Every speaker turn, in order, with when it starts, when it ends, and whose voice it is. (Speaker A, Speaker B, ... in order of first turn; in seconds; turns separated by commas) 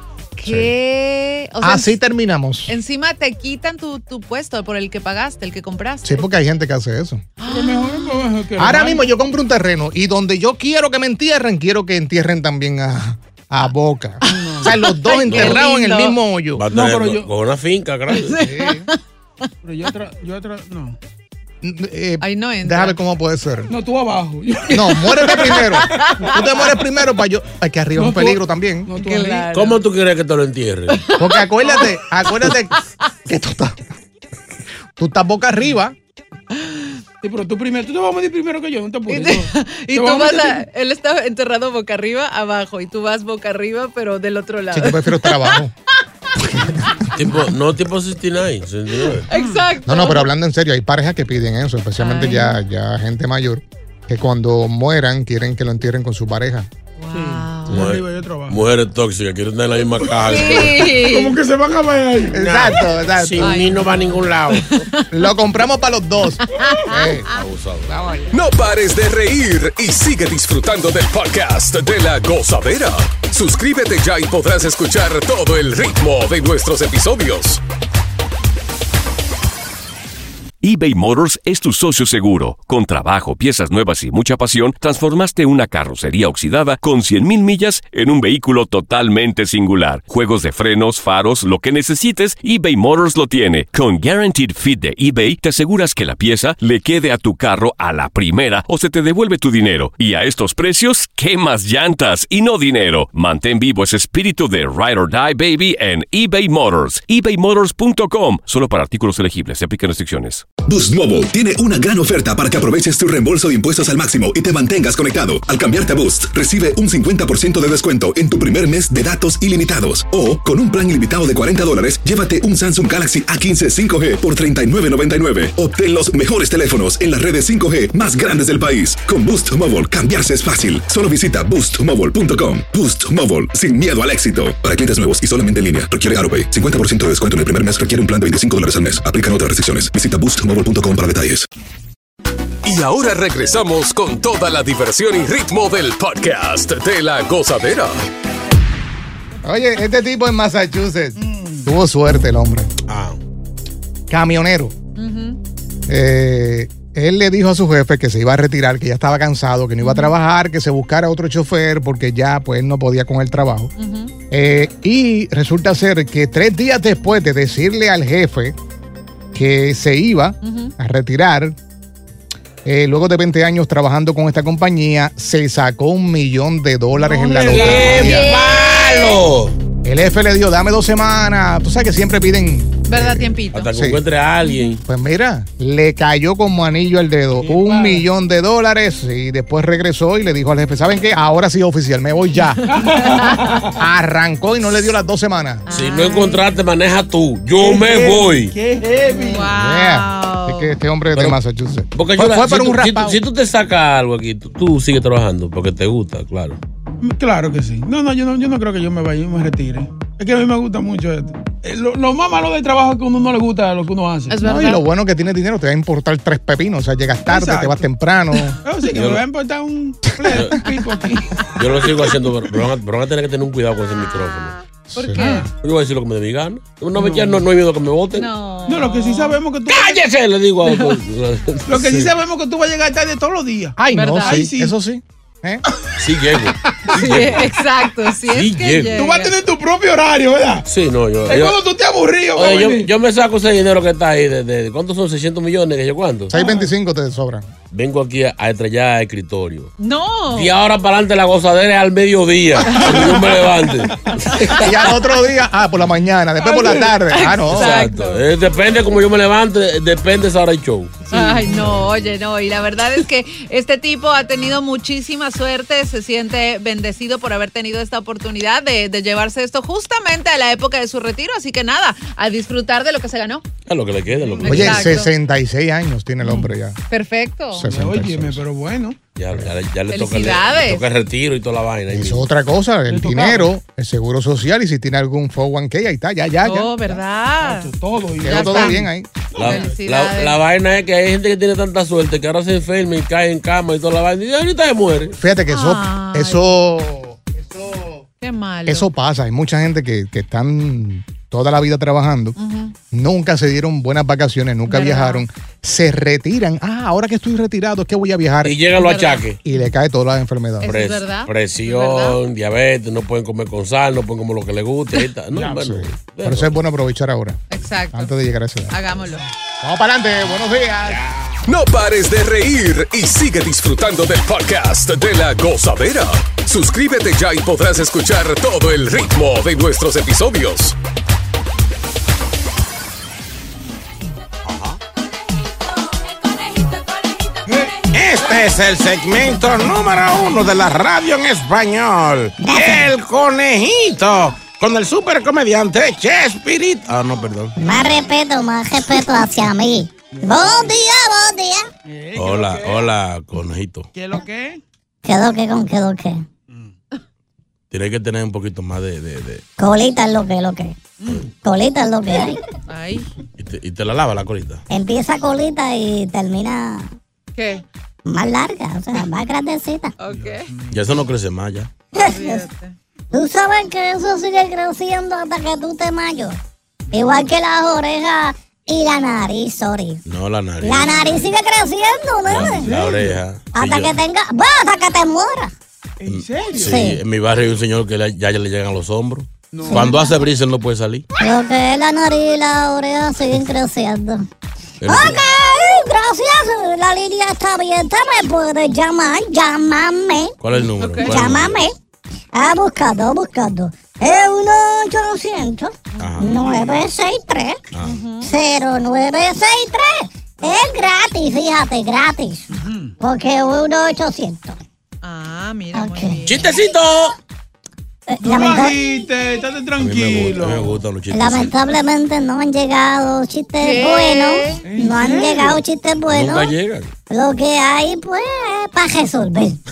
Speaker A: 0.3-2.0, Speaker B: 0.4-0.7, Speaker B: 1.6-2.7, Speaker A: 2.7-6.3, Speaker B: 6.0-7.2, Speaker A: 7.4-8.2, Speaker C: 7.4-9.1, Speaker B: 8.6-16.6, Speaker A: 14.2-16.2, Speaker C: 14.3-14.7, Speaker D: 15.3-15.7, Speaker D: 16.6-18.4, Speaker C: 16.7-17.3, Speaker A: 18.1-18.9, Speaker B: 18.4-18.9, Speaker C: 19.6-21.0, Speaker B: 21.6-23.7, Speaker A: 22.2-23.0, Speaker C: 23.7-25.6, Speaker B: 24.7-28.9, Speaker A: 25.5-26.4, Speaker C: 27.9-29.5, Speaker A: 29.0-29.8, Speaker D: 29.5-31.0, Speaker A: 30.9-32.6, Speaker B: 31.2-32.8, Speaker B: 33.3-33.8, Speaker B: 35.0-35.9, Speaker C: 37.2-40.6, Speaker A: 39.1-45.6, Speaker B: 44.7-45.7, Speaker D: 47.1-49.3, Speaker A: 49.3-50.3, Speaker C: 49.3-49.6, Speaker B: 49.9-56.7, Speaker A: 52.0-52.6, Speaker A: 57.0-57.9, Speaker C: 57.1-58.6, Speaker D: 57.7-61.0, Speaker C: 60.0-62.4, Speaker A: 60.2-61.4, Speaker B: 62.3-63.7, Speaker D: 62.4-64.6, Speaker A: 63.4-65.3, Speaker B: 65.1-67.3, Speaker A: 66.5-67.3, Speaker D: 67.3-67.9, Speaker B: 67.9-68.2, Speaker E: 68.3-77.6, Speaker F: 80.6-110.5, Speaker G: 110.6-141.5, Speaker E: 142.6-148.1, Speaker B: 149.4-152.7, Speaker C: 151.2-151.7, Speaker D: 152.9-153.2, Speaker B: 154.1-154.7, Speaker A: 154.9-155.4, Speaker B: 155.9-163.7, Speaker A: 159.8-160.1, Speaker A: 163.8-164.1, Speaker B: 164.3-168.6, Speaker B: 169.3-171.6, Speaker A: 170.4-170.7, Speaker B: 172.6-178.3, Speaker C: 177.1-178.2, Speaker D: 177.3-179.5, Speaker A: 178.2-178.6, Speaker B: 179.8-184.0, Speaker A: 182.8-183.7, Speaker D: 183.5-184.8, Speaker B: 184.8-192.6, Speaker C: 187.3-188.0, Speaker C: 192.7-193.7, Speaker A: 192.8-193.4, Speaker B: 193.8-195.7, Speaker A: 195.7-196.4, Speaker D: 195.7-198.5, Speaker C: 197.6-199.5, Speaker A: 199.2-200.7, Speaker B: 199.5-203.2, Speaker D: 201.9-206.6, Speaker C: 207.0-214.4, Speaker A: 214.3-214.8, Speaker B: 214.4-218.6, Speaker C: 217.3-217.9, Speaker C: 218.6-221.9, Speaker D: 218.9-219.2, Speaker D: 220.3-220.6, Speaker D: 221.5-224.6, Speaker B: 224.9-225.2, Speaker A: 224.9-225.5, Speaker D: 225.3-228.3, Speaker C: 226.9-227.4, Speaker A: 228.1-229.4, Speaker C: 228.7-230.0, Speaker D: 229.7-232.1, Speaker A: 230.7-231.0, Speaker C: 231.7-234.7, Speaker B: 233.8-235.6, Speaker A: 233.9-234.4, Speaker D: 236.0-237.5, Speaker C: 236.6-237.1, Speaker A: 236.9-239.3, Speaker D: 238.3-239.0, Speaker C: 239.0-240.7, Speaker D: 240.6-241.6, Speaker C: 241.3-242.9, Speaker D: 242.3-246.3, Speaker B: 246.3-247.5, Speaker C: 246.3-246.7, Speaker D: 247.7-249.7, Speaker A: 249.8-250.5, Speaker D: 250.3-254.7, Speaker A: 252.6-253.3, Speaker B: 254.6-257.7, Speaker C: 256.4-257.0, Speaker A: 257.0-258.3, Speaker D: 257.5-261.0, Speaker A: 261.1-273.4, Speaker C: 261.1-261.7, Speaker D: 273.7-275.0, Speaker C: 274.2-274.5, Speaker A: 274.4-275.1, Speaker B: 274.4-276.8, Speaker A: 276.9-277.6, Speaker B: 277.5-278.4, Speaker C: 277.6-279.0, Speaker D: 279.2-282.2, Speaker A: 279.9-280.9, Speaker B: 281.9-287.0, Speaker C: 282.9-283.5, Speaker A: 286.4-287.7, Speaker C: 287.4-289.8, Speaker B: 288.2-289.1, Speaker A: 288.2-288.9, Speaker D: 289.3-295.2, Speaker A: 289.4-290.4, Speaker B: 295.2-298.1, Speaker A: 295.5-296.5, Speaker A: 298.2-298.9, Speaker B: 298.6-302.4, Speaker A: 302.4-302.7, Speaker B: 302.9-308.6, Speaker A: 304.7-305.2, Speaker D: 308.4-309.4, Speaker A: 308.7-309.2, Speaker B: 309.4-310.7, Speaker A: 310.6-312.2, Speaker D: 310.6-316.6, Speaker B: 315.4-317.4, Speaker A: 317.5-318.1, Speaker B: 317.9-318.7, Speaker A: 318.7-319.2, Speaker B: 319.6-321.0, Speaker E: 321.4-330.8, Speaker D: 334.4-334.8, Speaker H: 337.9-346.9, Speaker I: 342.4-342.9, Speaker D: 346.9-347.6, Speaker I: 347.6-351.6, Speaker C: 350.1-350.7, Speaker C: 351.9-352.9, Speaker D: 352.1-353.9, Speaker C: 353.9-354.6, Speaker I: 355.0-356.2, Speaker D: 357.7-359.4, Speaker I: 359.6-360.8, Speaker I: 361.4-362.4, Speaker A: 362.7-363.1, Speaker D: 363.4-364.6, Speaker I: 364.7-366.9, Speaker A: 367.3-367.6, Speaker I: 368.1-369.9, Speaker A: 370.0-370.5, Speaker C: 370.1-371.0, Speaker D: 370.7-371.7, Speaker I: 371.9-372.4, Speaker A: 372.0-372.7, Speaker I: 373.1-376.4, Speaker I: 376.9-380.0, Speaker C: 376.9-377.2, Speaker D: 380.1-381.2, Speaker I: 380.6-382.7, Speaker D: 382.3-383.9, Speaker C: 382.3-383.2, Speaker I: 383.5-385.5, Speaker C: 386.0-386.9, Speaker D: 386.1-391.0, Speaker I: 386.5-387.0, Speaker C: 389.5-389.9, Speaker I: 389.6-390.0, Speaker I: 391.2-394.2, Speaker D: 394.8-395.2, Speaker I: 394.8-400.3, Speaker D: 400.4-401.6, Speaker A: 400.8-401.2, Speaker I: 401.0-401.7, Speaker I: 402.3-407.6, Speaker A: 405.9-406.3, Speaker D: 406.0-406.4, Speaker D: 407.7-408.0, Speaker A: 407.8-408.3, Speaker I: 408.2-412.5, Speaker C: 412.5-412.9, Speaker I: 413.0-414.6, Speaker A: 415.0-416.5, Speaker I: 415.7-416.2, Speaker D: 416.2-417.1, Speaker I: 418.1-418.8, Speaker C: 418.2-420.8, Speaker D: 419.8-421.5, Speaker I: 421.1-426.5, Speaker A: 423.6-424.6, Speaker C: 424.6-425.6, Speaker D: 426.1-426.9, Speaker I: 427.1-429.6